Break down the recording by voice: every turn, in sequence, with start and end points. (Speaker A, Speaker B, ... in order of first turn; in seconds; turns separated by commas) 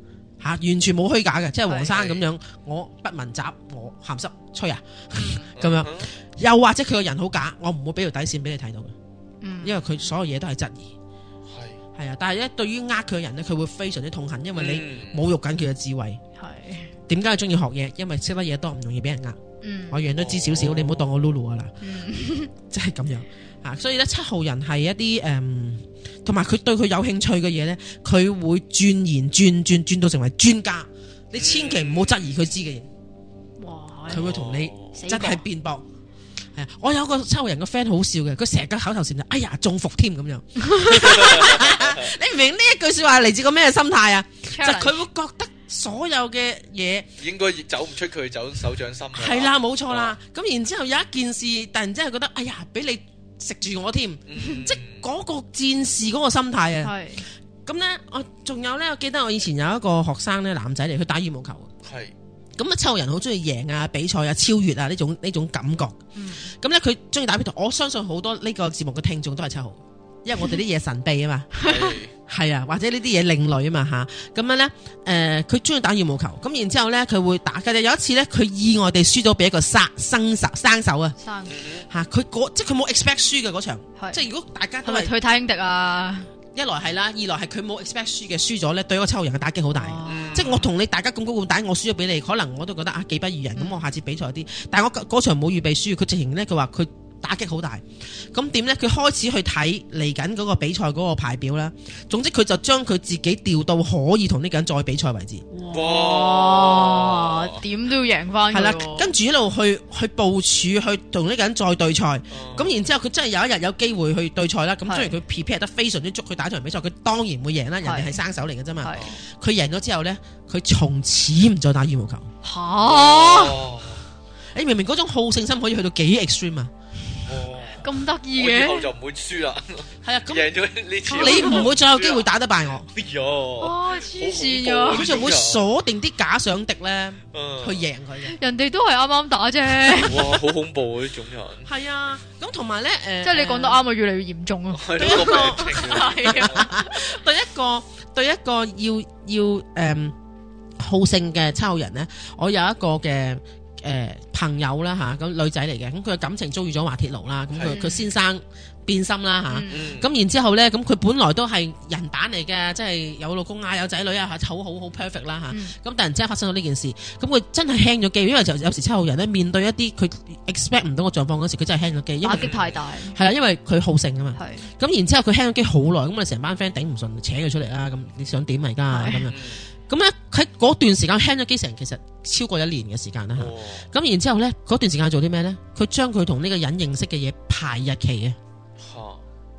Speaker A: 0.4-8.9, Speaker B: 1.7-2.3, Speaker C: 5.2-5.4, Speaker B: 5.6-6.1, Speaker C: 9.4-10.0, Speaker A: 9.6-10.9, Speaker B: 11.5-11.8, Speaker A: 11.9-16.2, Speaker B: 14.6-15.2, Speaker C: 16.4-16.9, Speaker A: 17.1-19.4, Speaker C: 19.6-20.0, Speaker A: 19.9-21.7, Speaker B: 20.1-21.1, Speaker C: 21.8-22.5, Speaker A: 22.7-32.9, Speaker B: 31.4-32.4, Speaker C: 33.6-34.4, Speaker B: 34.1-35.0, Speaker A: 34.1-35.9, Speaker C: 34.9-35.4, Speaker A: 36.5-47.1, Speaker B: 41.1-42.1, Speaker C: 44.5-45.0, Speaker B: 47.2-50.1, Speaker A: 49.1-56.9, Speaker B: 54.3-55.0, Speaker C: 56.8-57.2, Speaker A: 57.6-61.7, Speaker B: 61.8-62.1, Speaker A: 62.6-66.0, Speaker C: 66.1-66.5, Speaker A: 66.5-71.5, Speaker C: 71.6-72.0, Speaker B: 71.6-72.1, Speaker A: 72.3-81.2, Speaker C: 81.2-81.6, Speaker B: 81.5-81.9, Speaker A: 81.9-85.1, Speaker C: 84.0-84.2, Speaker C: 84.8-86.3, Speaker A: 86.5-105.4, Speaker C: 89.8-90.7, Speaker B: 90.1-90.6, Speaker C: 93.6-93.8, Speaker C: 105.5-109.1, Speaker B: 105.7-107.6, Speaker A: 108.5-122.3, Speaker B: 112.3-112.9, Speaker C: 114.9-115.1, Speaker C: 117.8-118.2, Speaker C: 118.8-119.2, Speaker B: 118.9-119.2, Speaker C: 122.4-123.6, Speaker B: 122.8-124.0, Speaker A: 124.5-126.7, Speaker B: 127.2-132.3, Speaker C: 127.8-128.9, Speaker A: 130.0-130.6, Speaker A: 131.1-132.9, Speaker C: 131.1-131.7, Speaker B: 132.9-135.6, Speaker C: 133.6-135.3, Speaker A: 134.9-138.4, Speaker B: 137.3-137.9, Speaker C: 138.2-140.4, Speaker B: 139.9-141.7, Speaker A: 141.6-143.8, Speaker C: 143.2-146.9, Speaker B: 144.7-146.7, Speaker A: 145.0-150.1, Speaker A: 150.8-188.4, Speaker B: 157.5-157.8, Speaker C: 157.6-158.1, Speaker C: 159.5-159.8, Speaker B: 159.7-160.1, Speaker C: 165.5-165.8, Speaker C: 172.2-173.2, Speaker B: 172.3-172.7, Speaker C: 174.4-174.7, Speaker C: 178.9-179.2, Speaker B: 179.3-179.7, Speaker B: 183.3-183.9, Speaker B: 188.8-189.2